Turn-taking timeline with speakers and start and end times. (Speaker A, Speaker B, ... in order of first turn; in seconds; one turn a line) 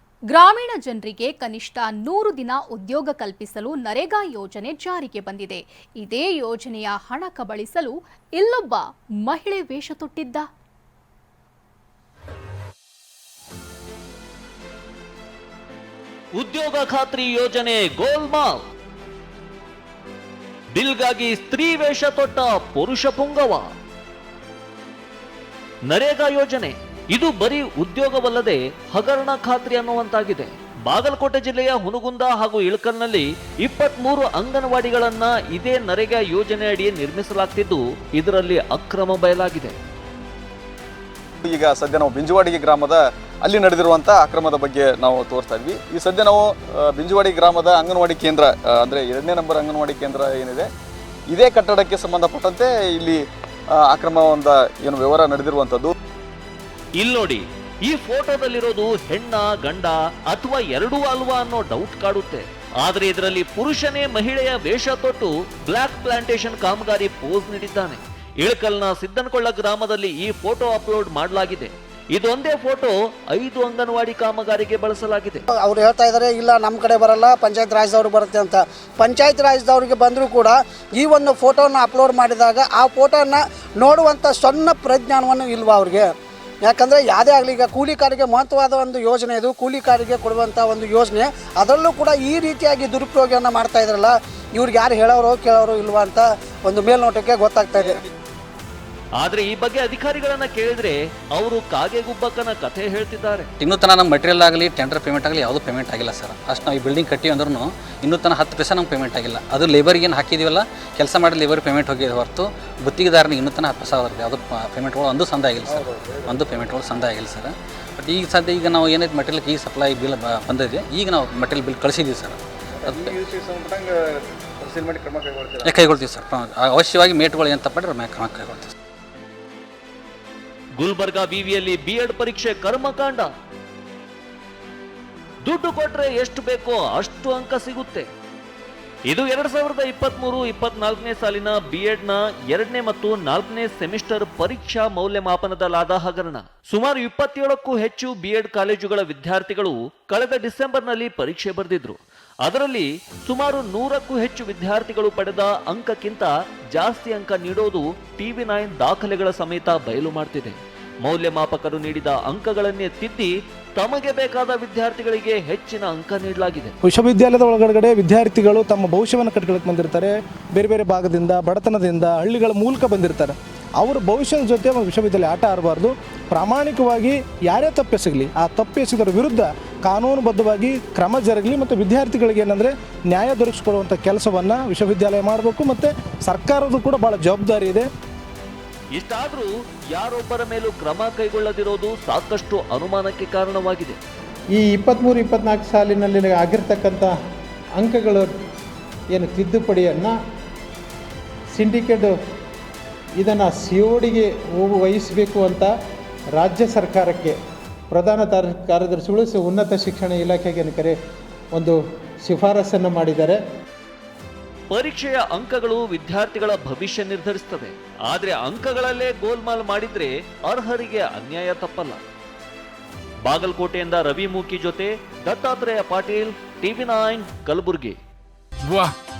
Speaker A: 0.3-10.4
Speaker B: 16.4-18.6
Speaker B: 20.7-23.7
Speaker B: 25.9-39.8
Speaker C: 41.4-46.4
Speaker C: 46.9-50.7
Speaker C: 51.3-53.2
Speaker C: 53.9-55.9
Speaker B: 57.0-75.4
Speaker D: 75.5-86.1
Speaker D: 86.6-98.0
Speaker B: 99.2-103.5
Speaker E: 103.6-123.2
Speaker E: 125.6-128.7
Speaker B: 130.8-133.3
Speaker B: 135.4-138.1
Speaker B: 139.1-166.7
Speaker F: 166.8-187.9
Speaker B: 188.9-194.0
Speaker G: 194.6-197.1
Speaker G: 197.8-198.3
Speaker G: 199.1-200.1
Speaker G: 201.5-202.1
Speaker G: 203.2-205.7
Speaker G: 206.4-207.3
Speaker G: 207.9-210.9
Speaker G: 211.6-213.4
Speaker B: 214.7-222.0
Speaker B: 223.2-228.0